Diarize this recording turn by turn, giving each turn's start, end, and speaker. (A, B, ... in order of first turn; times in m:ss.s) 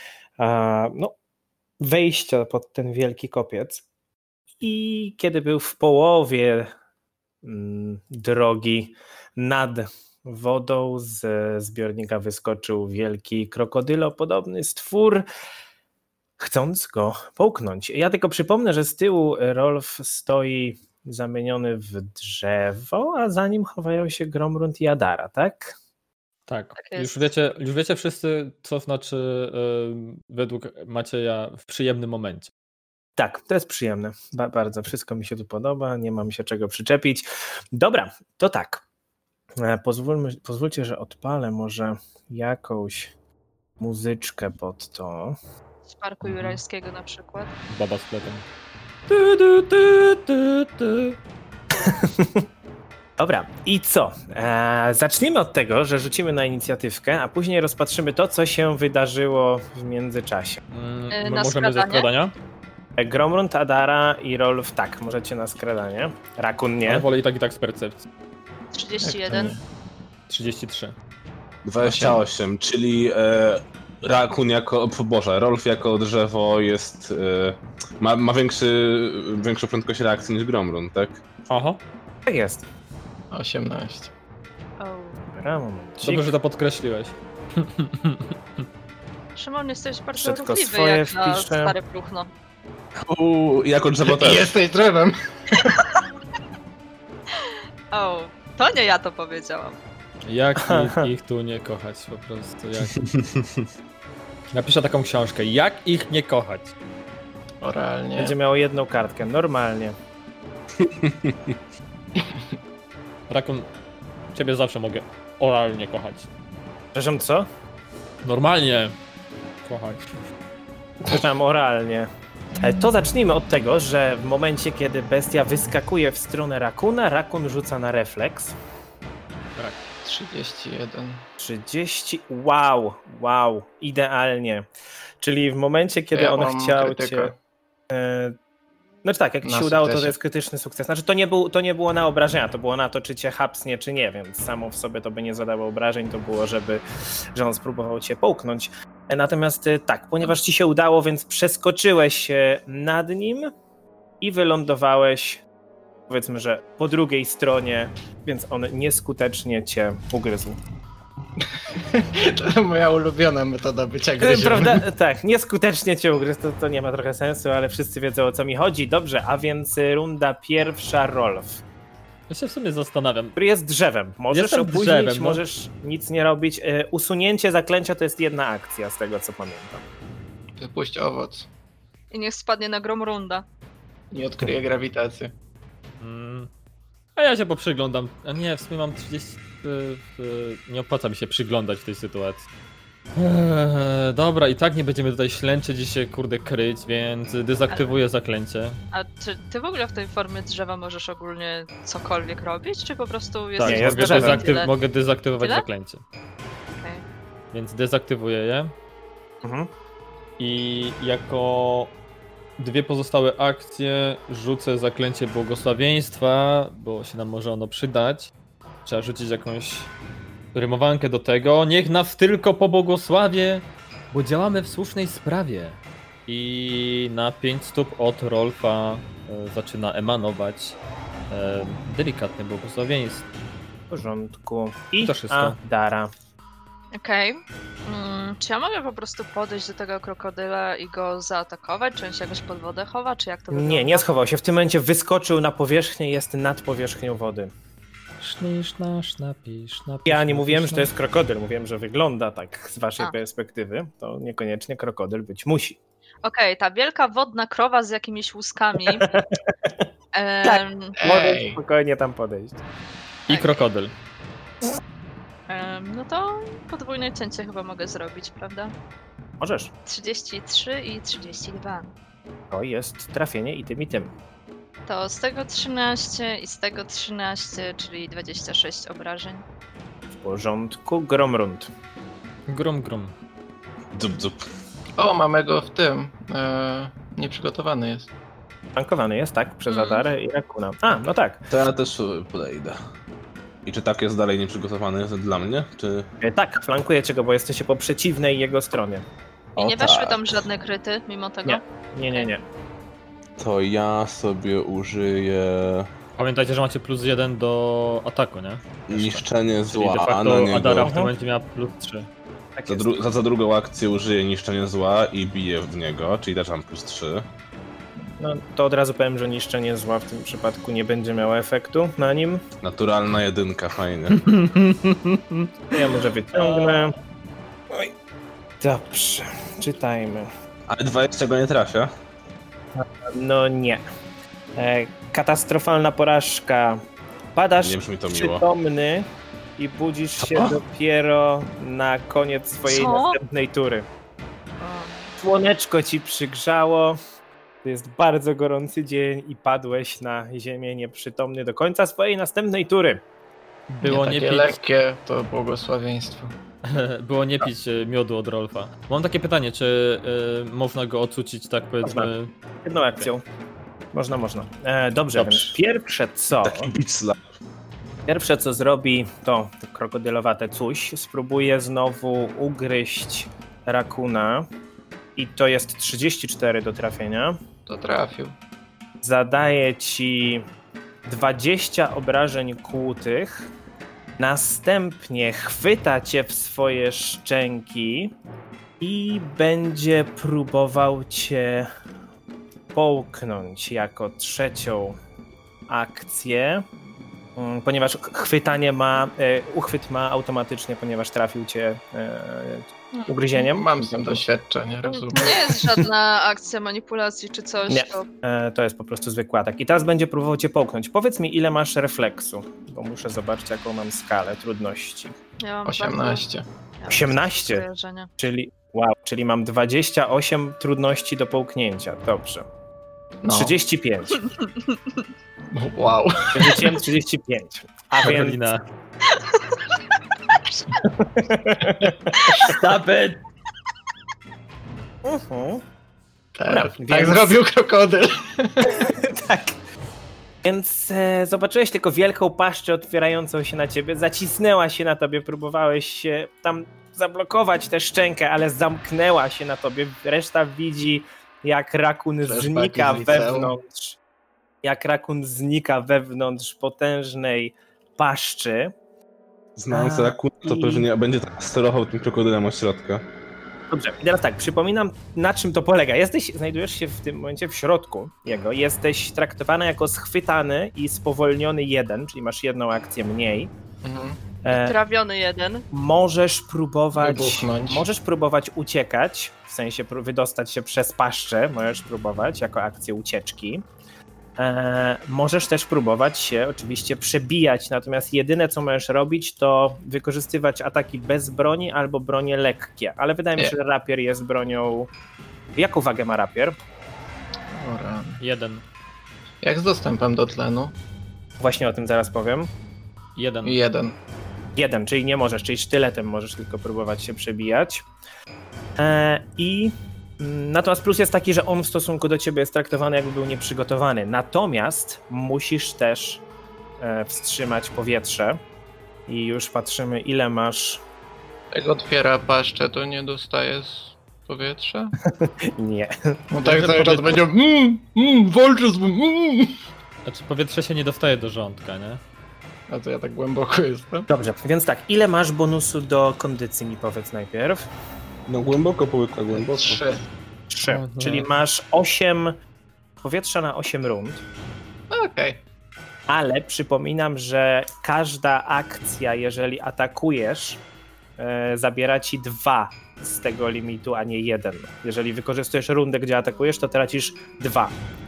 0:00.4-0:01.1 A
0:01.8-0:03.8 A
0:04.6-0:06.7 A
0:07.4-0:15.2 A
0:16.4-0:25.7 A
0:26.5-0:32.5 B
0:26.8-0:27.3 C
0:33.2-0:38.8 A
0:39.6-0:43.1 A
0:43.8-0:45.4 A
0:45.9-0:47.5 C
0:46.2-0:46.6 B
0:47.7-0:48.4 B
0:49.1-0:51.1 B
0:51.8-0:52.4 A
0:53.2-1:00.6 A
1:00.7-1:02.3 B
1:01.1-1:02.1 C
1:03.0-1:07.0 A
1:06.8-1:08.0 B
1:08.7-1:09.6 C
1:09.0-1:09.6 D
1:10.3-1:10.9 B
1:11.6-1:21.2 E
1:11.8-1:12.2 D
1:21.5-1:21.8 B
1:22.2-1:22.6 A
1:23.3-1:24.1 D
1:24.8-1:25.3 C
1:25.3-1:26.3 A
1:26.0-1:28.3 B
1:29.4-1:32.3 C
1:30.2-1:31.7 A
1:33.0-1:34.5 E
1:34.0-1:35.8 D
1:37.9-1:39.8 C
1:40.2-1:43.1 B
1:40.6-1:41.1 A
1:44.5-1:46.7 B
1:47.6-1:48.3 D
1:48.2-1:50.0 A
1:50.8-1:51.6 E
1:53.3-1:53.7 B
1:54.3-1:56.3 B
1:56.9-1:57.5 A
1:58.2-1:59.0 B
1:59.6-2:00.0 B
2:01.0-2:08.5 A
2:10.0-2:11.2 D
2:11.4-2:14.6 A
2:15.2-2:17.3 A
2:16.1-2:17.3 D
2:17.9-2:18.4 A
2:19.0-2:26.8 A
2:19.4-2:20.1 D
2:27.3-2:33.5 A
2:34.2-2:35.4 A
2:36.1-2:40.6 A
2:41.9-2:44.8 D
2:44.2-2:51.6 A
2:52.3-2:53.4 B
2:53.4-2:59.8 A
2:54.3-2:55.4 B
3:00.6-3:01.5 D
3:02.1-3:03.4 C
3:04.1-3:05.3 D
3:06.0-3:06.5 B
3:07.2-3:12.4 B
3:13.2-3:18.8 B
3:17.7-3:18.0 C
3:18.9-3:24.7 C
3:23.6-3:26.0 B
3:23.6-3:24.5 A
3:26.8-3:27.0 C
3:27.5-3:28.7 B
3:29.4-3:29.7 A
3:30.4-3:31.9 B
3:32.6-3:38.3 B
3:38.8-3:39.9 B
3:40.5-3:50.8 B
3:51.3-3:53.2 B
3:53.9-3:56.1 A
3:55.0-3:55.6 B
3:57.0-4:04.0 C
4:03.5-4:07.5 A
4:08.2-4:10.9 B
4:10.0-4:15.8 A
4:16.2-4:19.1 C
4:18.9-4:19.3 A
4:20.1-4:21.0 C
4:20.4-4:22.6 A
4:21.0-4:21.6 D
4:23.3-4:23.9 B
4:25.5-4:28.7 C
4:29.4-4:29.7 A
4:29.8-4:31.9 C
4:32.5-4:34.1 A
4:34.9-4:39.4 C
4:40.1-4:41.7 A
4:42.5-4:43.2 B
4:43.9-4:44.5 E
4:45.0-4:48.1 D
4:48.7-4:51.4 A
4:49.7-4:50.0 C
4:51.5-4:52.8 E
4:53.6-4:56.1 E
4:56.2-4:59.0 A
4:59.6-5:00.4 E
4:59.6-5:02.3 C
5:01.4-5:02.4 A
5:03.4-5:05.9 E
5:06.2-5:12.1 B
5:08.9-5:10.9 E
5:10.8-5:11.1 A
5:12.6-5:13.0 A
5:12.7-5:17.2 E
5:18.2-5:22.4 A
5:22.6-5:24.3 E
5:24.1-5:26.9 B
5:25.7-5:26.9 A
5:28.6-5:30.3 A
5:30.7-5:31.9 E
5:32.8-5:33.8 A
5:34.6-5:36.8 A
5:37.3-5:43.9 A
5:37.6-5:38.4 E
5:40.2-5:40.6 E
5:42.6-5:43.2 C
5:44.6-5:45.1 C
5:45.2-5:47.0 A
5:47.6-5:53.0 A
5:53.7-5:54.6 B
5:53.8-5:56.3 D
5:56.6-6:02.3 B
6:01.8-6:02.1 A
6:02.6-6:03.2 A
6:03.9-6:06.7 A
6:05.1-6:05.5 B
6:06.4-6:07.2 E
6:08.1-6:14.5 A
6:15.2-6:17.4 A
6:17.6-6:18.4 D
6:19.0-6:20.4 A
6:21.0-6:23.5 A
6:24.2-6:28.1 A
6:28.8-6:31.7 A
6:32.7-6:35.0 A
6:35.7-6:36.6 A
6:37.4-6:44.2 A
6:43.3-6:45.8 D
6:44.9-6:48.1 C
6:47.7-6:55.1 A
6:55.4-6:56.2 C
6:55.6-6:56.4 D
6:56.8-6:58.1 C
6:56.9-6:57.6 A
6:58.2-7:02.5 A
7:03.2-7:03.5 D
7:03.3-7:04.2 A
7:04.4-7:04.7 C
7:05.5-7:06.7 D
7:06.3-7:08.5 A
7:08.0-7:08.6 B
7:09.3-7:09.6 C
7:10.8-7:12.5 A
7:12.3-7:13.2 B
7:15.0-7:15.6 A
7:16.3-7:18.8 D
7:16.5-7:17.4 A
7:18.7-7:19.6 A
7:20.4-7:34.0 A
7:32.2-7:33.5 D
7:34.6-7:38.7 A
7:39.6-7:43.0 E
7:39.7-7:40.8 A
7:43.7-7:53.5 A
7:53.8-7:54.2 D
7:54.4-7:54.8 A
7:54.5-7:55.6 C
7:55.7-8:03.6 A
7:56.9-7:57.8 D
8:04.4-8:14.9 A
8:15.5-8:16.6 A
8:17.5-8:18.2 D
8:18.2-8:18.6 B
8:19.4-8:20.7 D
8:21.4-8:22.5 A
8:23.2-8:23.6 B
8:23.4-8:24.0 D
8:24.6-8:27.9 A
8:28.8-8:36.2 A
8:36.8-8:38.4 A
8:39.1-8:40.8 A
8:41.5-8:44.9 D
8:45.0-8:46.2 A
8:46.3-8:49.6 D
8:46.4-8:47.2 B
8:50.0-8:52.0 B
8:52.7-8:54.1 D
8:54.1-8:57.7 A
8:58.3-8:59.8 E
8:59.3-9:00.0 D
9:00.5-9:02.4 A
9:00.6-9:01.2 B
9:03.0-9:04.2 A
9:04.9-9:05.4 D
9:06.1-9:10.6 A
9:11.2-9:17.8 A